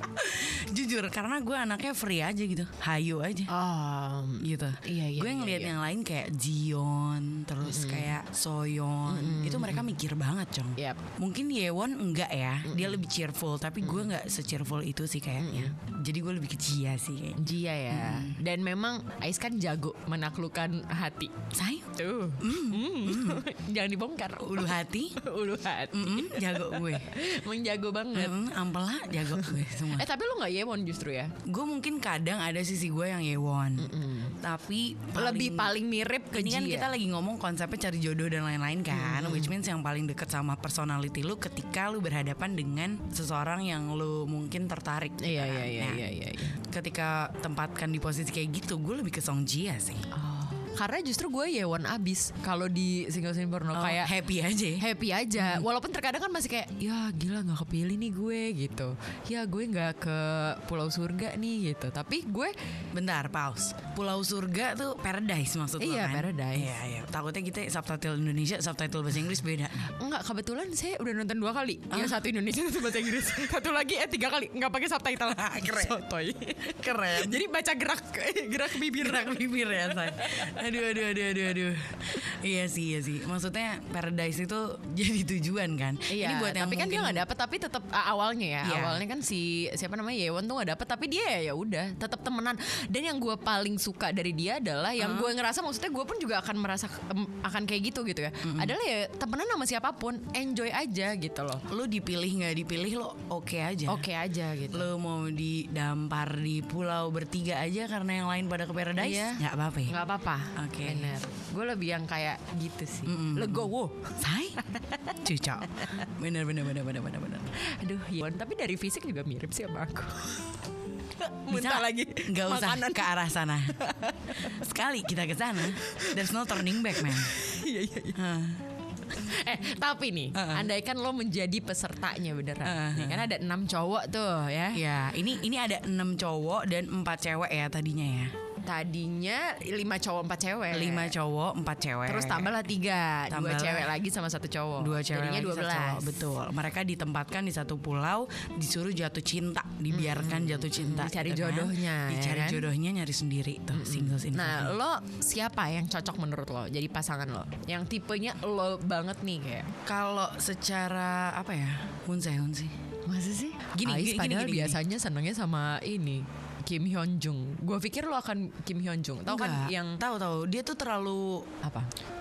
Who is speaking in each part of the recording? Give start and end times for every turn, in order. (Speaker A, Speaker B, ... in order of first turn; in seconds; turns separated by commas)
Speaker A: 0.2-3.5, Speaker B: 3.5-5.8, Speaker A: 4.4-18.4, Speaker B: 7.6-8.1, Speaker B: 9.1-9.9, Speaker B: 10.8-11.1, Speaker B: 12.7-13.0, Speaker B: 13.8-14.1, Speaker B: 15.4-15.8, Speaker B: 17.4-21.4, Speaker A: 21.5-23.4, Speaker B: 21.9-28.4, Speaker A: 24.4-25.2, Speaker A: 25.9-27.1, Speaker A: 28.1-30.1, Speaker B: 29.2-31.3, Speaker A: 31.5-35.8, Speaker B: 33.8-34.4, Speaker B: 35.1-36.9, Speaker A: 36.3-46.0, Speaker B: 38.9-39.5, Speaker B: 45.2-46.6, Speaker A: 46.6-50.0, Speaker B: 50.1-54.1, Speaker A: 53.7-54.9, Speaker B: 54.8-62.5, Speaker A: 55.4-55.6, Speaker A: 62.9-69.9, Speaker B: 65.8-66.7, Speaker B: 69.8-80.6, Speaker A: 71.9-72.2, Speaker A: 75.4-76.0, Speaker A: 76.6-77.4, Speaker A: 78.8-87.2, Speaker B: 86.1-101.7, Speaker A: 88.6-89.0, Speaker A: 95.0-95.3, Speaker A: 98.4-98.8, Speaker A: 101.7-104.1, Speaker B: 103.9-104.9, Speaker A: 104.7-110.0, Speaker B: 109.0-115.2, Speaker A: 110.6-111.2, Speaker A: 113.1-117.5, Speaker B: 115.8-116.0, Speaker B: 117.6-120.5, Speaker B: 121.2-123.1, Speaker A: 121.5-123.8, Speaker B: 123.7-124.6, Speaker A: 124.4-127.3, Speaker B: 125.6-128.2, Speaker A: 128.1-128.6, Speaker B: 129.1-134.8, Speaker A: 130.3-130.7, Speaker A: 132.6-133.3, Speaker A: 134.7-138.3, Speaker B: 138.6-141.2, Speaker A: 140.7-142.6, Speaker B: 142.1-146.2, Speaker A: 143.3-144.0, Speaker A: 144.8-154.8, Speaker B: 149.9-152.7, Speaker B: 153.7-159.7, Speaker A: 159.8-162.8, Speaker B: 163.1-170.0, Speaker A: 163.7-164.8, Speaker A: 169.3-171.5, Speaker B: 171.6-171.9